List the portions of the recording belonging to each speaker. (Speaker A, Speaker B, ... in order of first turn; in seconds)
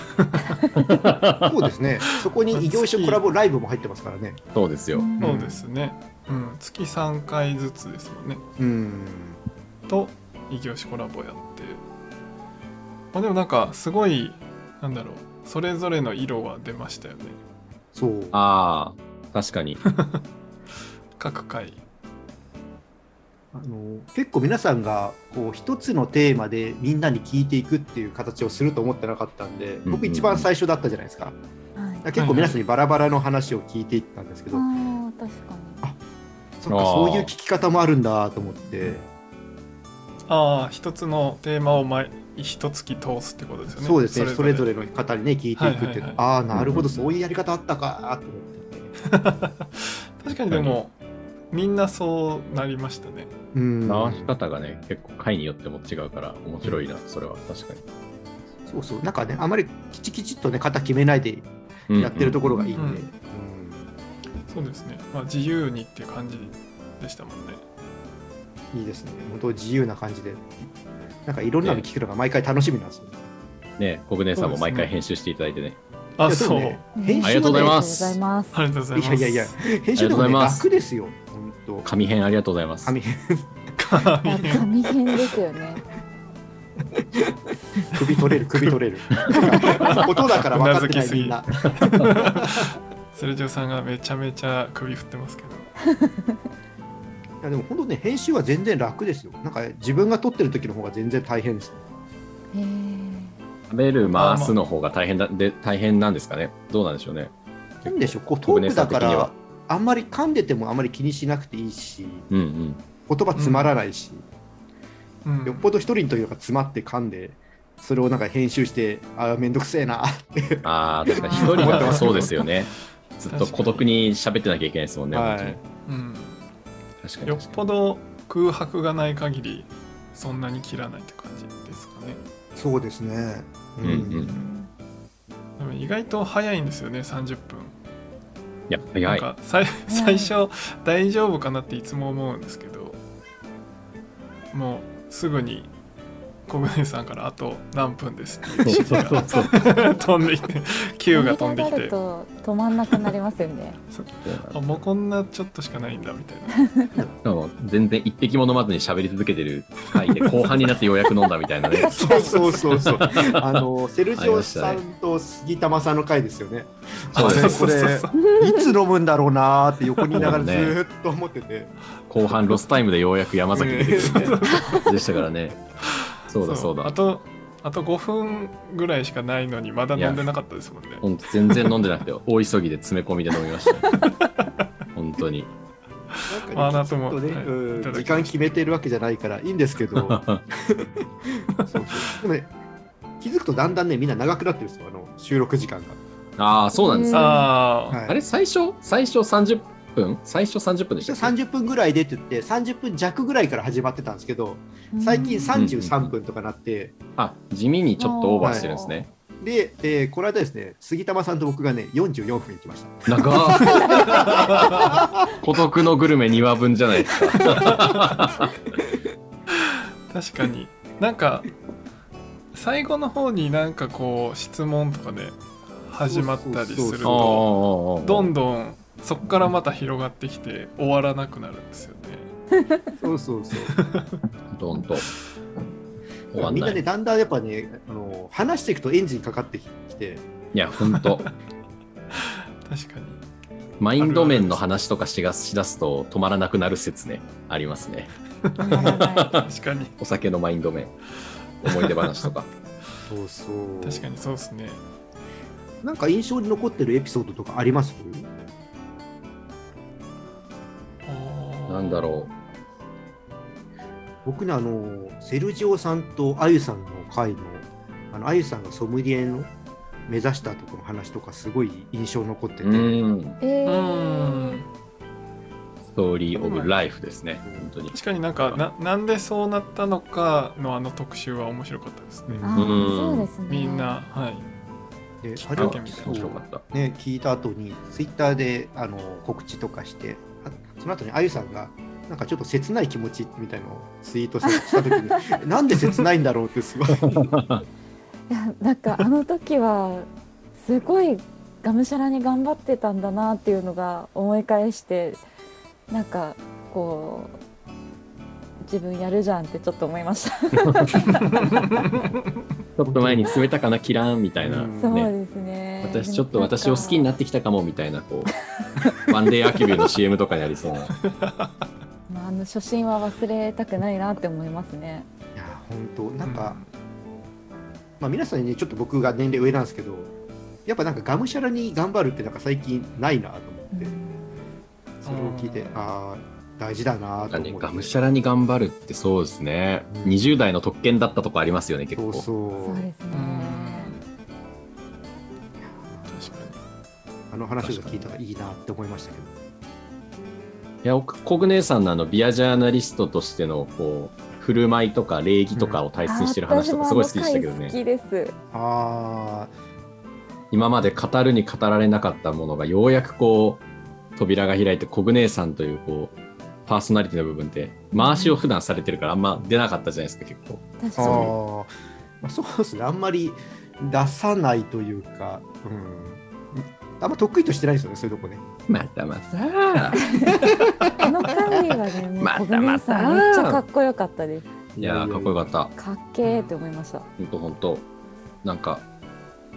Speaker A: 0.2-0.4, 2.5-3.2, 5.2-8.4, 9.9-11.8, 13.1-17.4, 19.9-20.2, 21.2-21.8, 32.1-32.6, 40.3-44.7, 45.6-46.2, 49.0-50.9, 51.5-53.3, 62.8-63.1, 64.5-67.6, 74.4-74.9, 76.2-76.8, 78.5-79.6, 83.8-84.7, 89.3-95.7, 104.1-104.6, 113.3-113.7, 115.2-115.7, 121.3-122.5, 123.3-123.8, 125.8-126.4, 127.2-132.2, 135.6-137.8, 139.1-143.0, 144.5-145.7, 146.5-151.9, 153.9-156.7, 160.1-160.7, 162.3-163.0, 167.1-168.2, 174.0-175.0, 176.3-181.8, 183.9-184.5, 186.3-188.7, 197.1-198.0, 213.6-214.9, 219.5-221.5, 222.5-232.3, 233.7-234.2, 240.8-241.3, 242.1-243.2, 244.0-244.7, 248.5-249.9, 251.6-252.3, 253.8-254.8, 261.1-262.3, 273.6-274.7, 276.3-276.7, 277.9-282.4, 283.5-284.5, 285.4-286.2, 321.1-321.5, 326.2-326.7, 335.0-335.8, 343.1-344.0, 346.1-346.6, 386.2-386.5
Speaker B: 0.7-1.6, 4.5-5.1, 18.3-19.8, 29.9-30.5, 36.7-37.3, 46.5-46.9, 50.5-50.8, 53.9-57.8, 61.9-62.7, 73.8-75.8, 77.2-78.2, 80.0-80.6, 81.8-82.9, 103.7-107.3, 107.8-109.3, 112.3-112.8, 120.6-125.6, 127.0-127.6, 133.8-134.3, 138.7-139.3, 148.6-149.7, 154.2-154.8, 157.2-162.3, 162.8-163.4, 164.1-164.8, 167.1-167.8, 170.1-170.8, 172.1-175.6, 176.3-176.9, 179.9-180.2, 181.0-183.9, 184.9-185.5, 189.9-190.4, 196.4-197.4, 198.1-201.3, 205.5-206.1, 207.2-209.1, 213.1-218.6, 227.0-228.3, 234.5-235.1, 236.3-236.8, 240.5-241.3, 243.8-248.1, 248.8-250.9, 251.6-252.5, 261.7-262.3, 272.6-273.4, 275.9-278.6, 282.5-283.3, 285.6-286.6, 296.9-297.6, 310.6-310.9, 312.8-315.1, 315.8-318.3, 318.9-320.9, 337.3-342.2, 347.6-348.1, 350.8-357.8, 360.5-363.6, 364.1-371.3, 378.7-380.2, 382.2-383.6, 384.8-385.7, 387.2-387.9, 388.4-388.9
Speaker C: 1.4-4.4, 5.2-5.6, 8.6-9.4, 17.9-18.4, 23.5-31.4, 32.0-34.6, 36.6-39.1, 43.8-48.9, 53.5-54.3, 58.7-63.9, 68.7-70.5, 71.2-73.2, 74.4-74.8, 76.2-77.8, 78.9-81.9, 82.8-83.5, 86.9-92.6, 97.4-101.8, 107.8-112.3, 113.1-114.2, 115.4-122.3, 125.1-125.6, 132.6-134.4, 161.9-171.7, 173.5-174.4, 186.2-192.5, 193.2-196.0, 197.9-198.2, 201.0-206.9, 208.4-208.7, 209.4-215.3, 217.4-218.2, 226.0-227.4, 233.0-233.8, 236.3-240.2, 253.1-254.1, 255.8-258.3, 264.2-269.5, 270.1-273.0, 282.3-282.8, 285.2-297.3, 312.9-313.4, 314.4-314.9, 325.4-326.6, 328.0-330.1, 330.6-333.9, 335.0-337.9, 339.9-340.2, 342.0-342.9, 345.6-346.3, 347.3-349.3, 355.5-355.8, 358.5-359.5, 371.0-378.4, 384.8-385.5
Speaker D: 4.9-5.4, 31.8-32.0, 34.5-35.8, 77.0-78.6, 84.2-85.8, 95.9-96.4, 102.5-103.4, 121.1-121.7, 134.3-134.7, 139.9-140.3, 149.4-150.1, 151.1-153.8, 161.7-162.8, 168.2-168.7, 196.8-197.5, 204.9-205.5, 208.0-209.0, 248.6-249.4, 273.4-274.6, 282.4-284.0, 294.5-295.2, 298.3-300.1, 300.6-305.2, 305.9-307.4, 308.6-311.6, 314.8-317.1, 322.1-325.1, 333.7-334.4, 342.6-344.0, 356.0-358.4, 367.9-368.4, 370.8-371.3, 380.0-380.4, 381.0-384.5, 385.8-387.1